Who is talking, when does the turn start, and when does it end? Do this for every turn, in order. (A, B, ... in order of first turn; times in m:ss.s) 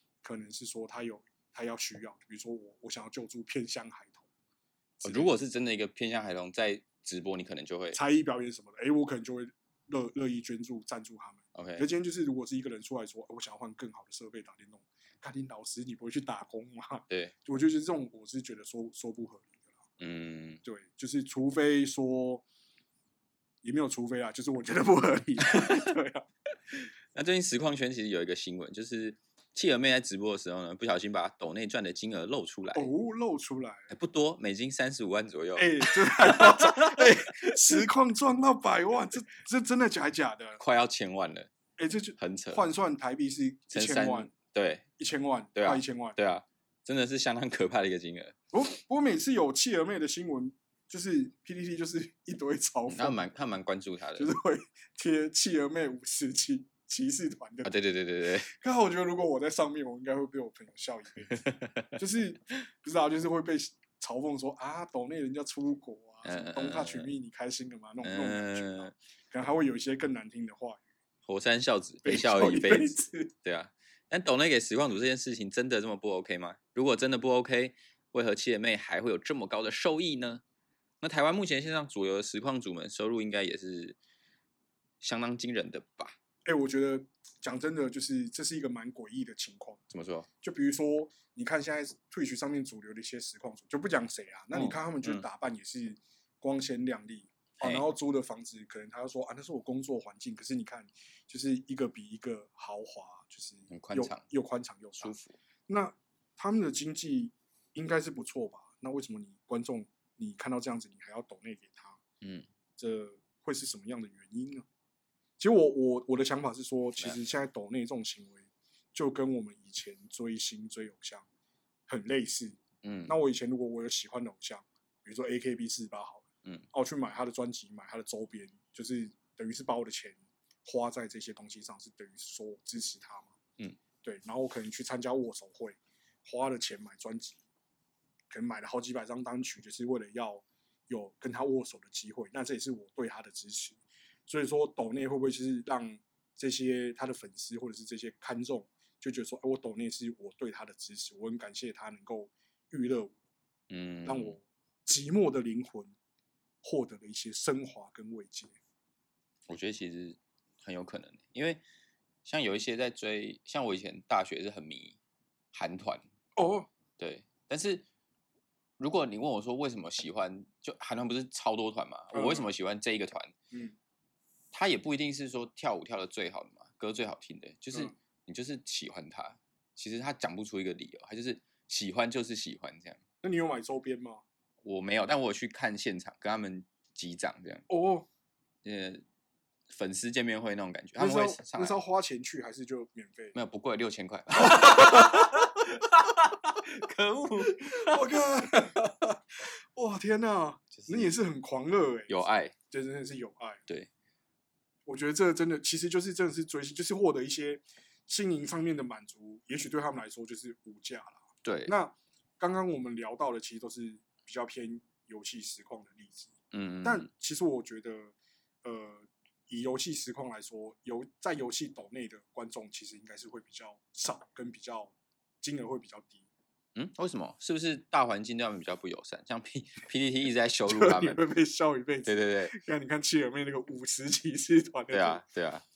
0:00.2-0:04.3 A
0:05.0-0:05.3 A
0:05.0-0:08.0 B
0:07.9-0:19.7 A
0:11.5-0:11.9 B
0:20.0-0:20.6 B
0:20.6-0:22.4 A
0:23.6-0:26.2 A
0:25.5-0:25.9 B
0:27.1-0:32.9 B
0:32.7-0:33.9 A
0:33.9-0:37.8 B
0:35.6-0:40.6 A
0:40.6-0:41.5 B
0:41.8-0:44.3 A
0:42.2-0:42.6 B
0:43.7-0:44.9 B
0:45.0-0:46.2 A
0:45.5-0:48.4 B
0:48.5-0:53.2 A
0:52.9-0:54.3 B
0:54.2-0:57.7 A
0:57.6-0:58.5 B
0:58.4-1:01.4 A
1:01.3-1:02.0 B
1:02.0-1:10.8 A
1:06.2-1:07.1 B
1:08.0-1:08.9 B
1:11.2-1:20.4 B
1:12.0-1:13.3 A
1:21.0-1:24.0 B
1:25.0-1:26.1 B
1:26.4-1:29.8 A
1:29.9-1:30.3 B
1:30.4-1:45.1 A
1:34.5-1:35.2 B
1:37.6-1:37.9 B
1:43.7-1:44.2 B
1:45.0-1:45.4 B
1:45.7-1:52.0 A
1:52.2-1:52.5 B
1:52.8-1:54.6 A
1:55.4-2:01.2 A
2:01.9-2:13.3 A
2:02.8-2:03.1 B
2:14.0-2:17.4 A
2:18.3-2:33.1 A
2:33.7-2:34.4 B
2:34.0-2:35.9 A
2:36.6-2:38.6 A
2:39.5-2:41.6 B
2:42.2-2:45.0 B
2:45.5-2:46.0 B
2:46.4-2:46.7 A
2:47.0-2:47.8 B
2:48.8-2:53.3 B
2:52.1-2:52.5 A
2:53.5-2:53.8 A
2:54.5-3:03.0 B
3:03.2-3:04.2 A
3:04.6-3:07.7 B
3:07.7-3:08.1 A
3:08.6-3:09.0 B
3:09.7-3:11.8 B
3:11.0-3:13.3 A
3:13.3-3:18.9 B
3:14.5-3:15.3 A
3:17.5-3:19.1 A
3:19.7-3:23.6 A
3:20.7-3:21.1 B
3:22.1-3:22.5 B
3:24.8-3:46.3 A
3:31.4-3:31.7 B
3:36.5-3:37.1 B
3:46.7-3:51.2 B
3:50.6-3:55.2 A
3:52.0-3:52.5 B
3:54.9-3:55.6 B